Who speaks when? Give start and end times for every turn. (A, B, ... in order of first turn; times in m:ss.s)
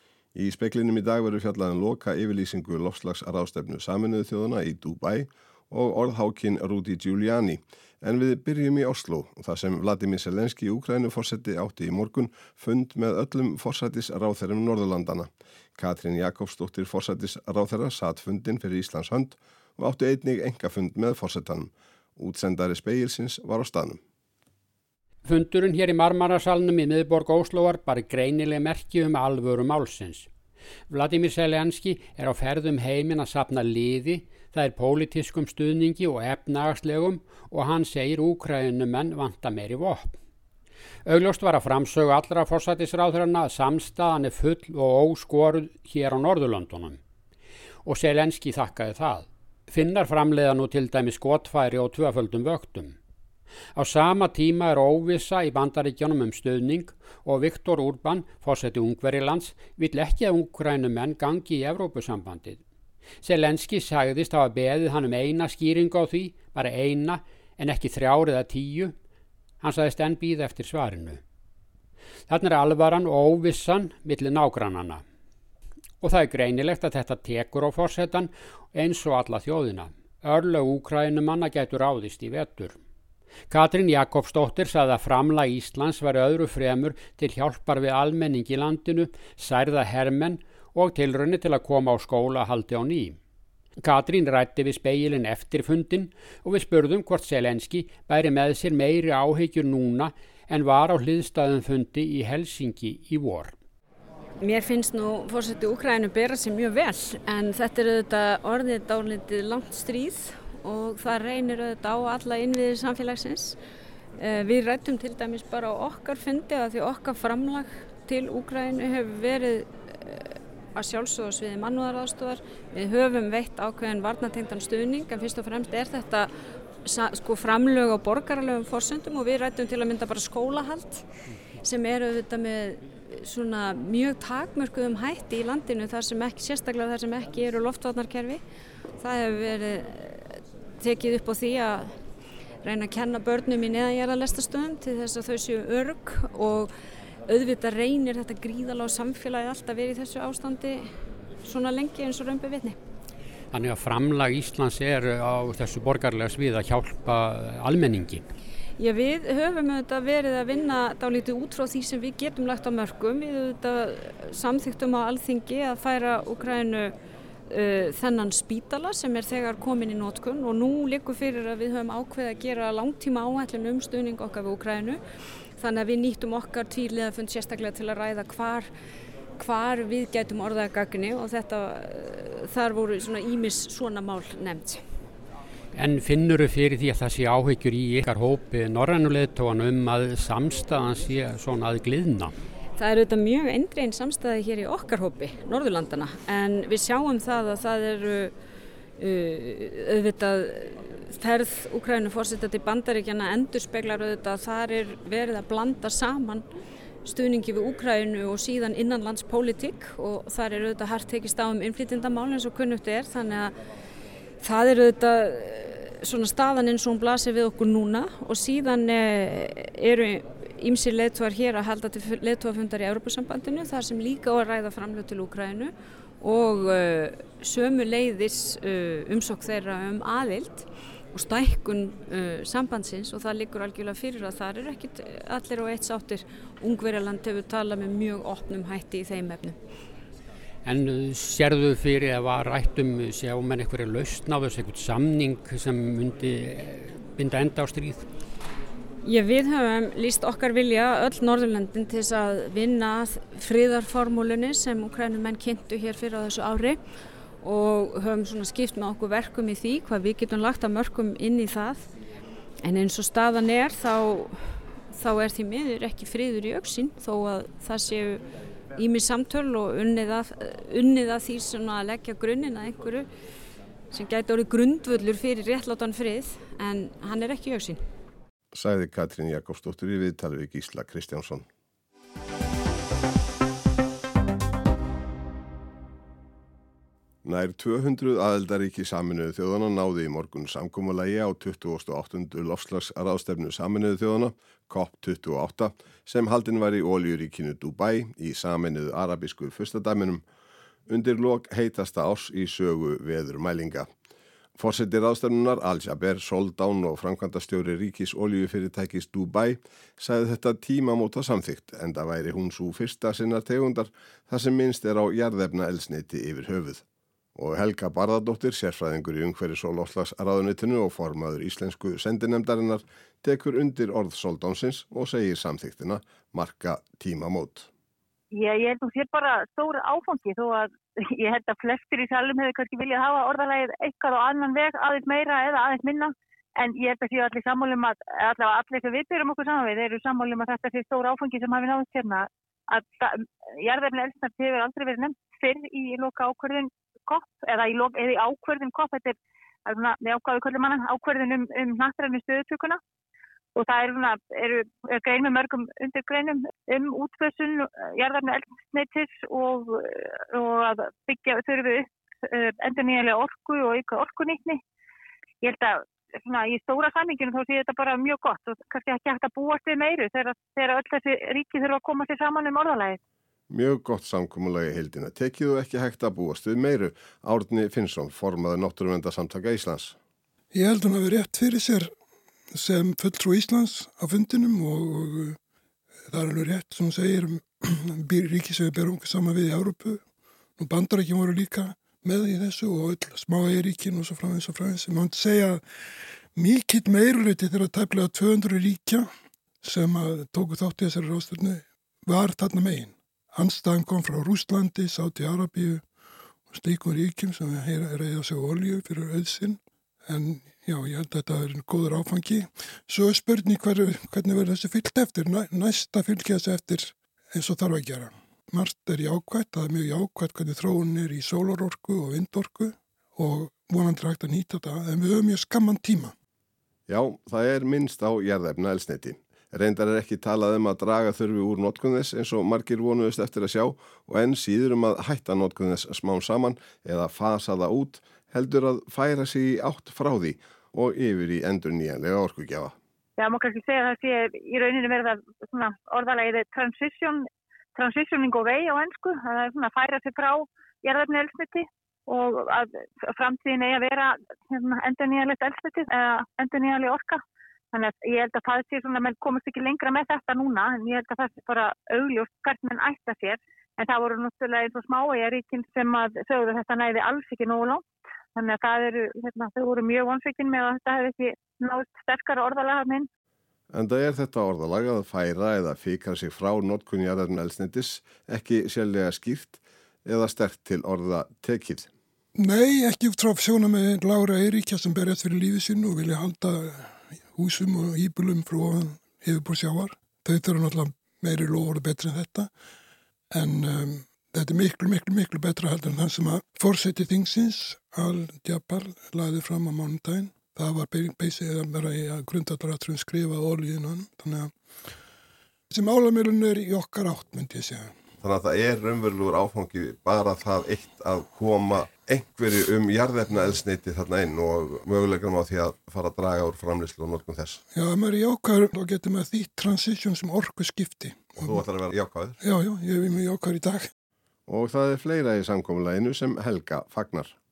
0:00.4-0:24.0 A
0:25.2-0:30.3 B
0:30.9-0:40.2 B
0:41.0-0:47.0 B
0:47.8-0:53.0 B
0:53.8-1:02.6 B
1:03.2-1:09.0 B
1:09.6-1:11.2 B
1:12.3-1:15.0 B
1:16.0-1:22.8 B
1:23.5-1:33.2 B
1:33.8-1:43.6 B
1:44.4-1:53.6 C
1:54.2-2:06.3 C
2:06.8-2:11.1 C
2:11.6-2:18.4 C
2:19.0-2:21.9 C
2:22.6-2:26.7 C
2:27.3-2:30.8 C
2:31.4-2:32.8 C
2:33.5-2:38.2 B
2:38.8-2:46.9 C
2:47.5-2:55.0 C
2:55.6-2:58.7 C
2:59.4-3:04.8 C
3:05.7-3:12.3 B
3:12.8-3:18.3 C
3:19.0-3:26.5 C
3:27.0-3:33.5 C
3:34.4-3:59.6 C
4:00.6-4:08.1 B
4:09.0-4:16.8 C
4:17.4-4:21.9 C
4:22.6-4:28.2 C
4:28.8-4:33.1 C
4:33.9-4:37.8 C
4:38.5-4:41.4 A
4:47.2-5:00.2 A
5:00.9-5:03.9 A
5:04.6-5:16.8 A
5:17.4-5:27.7 A
5:28.3-5:52.8 D
5:53.6-6:04.6 D
6:05.4-6:13.0 D
6:13.5-6:20.0 A
6:20.5-6:21.9 E
6:22.5-6:25.4 E
6:26.1-6:30.0 E
6:30.6-6:35.6 E
6:36.4-6:39.1 E
6:39.6-6:45.8 E
6:46.5-7:06.1 E
7:06.9-7:22.8 A
7:23.2-7:27.2 D
7:27.8-7:37.2 D
7:37.7-7:47.8 D
7:48.4-7:53.1 D
7:53.7-8:01.9 A
8:02.4-8:12.5 E
8:13.3-8:24.5 E
8:25.7-8:27.9 E
8:28.2-8:37.6 A
8:37.7-8:41.6 E
8:41.4-8:42.4 A
8:42.4-8:43.9 E
8:44.5-8:47.4 A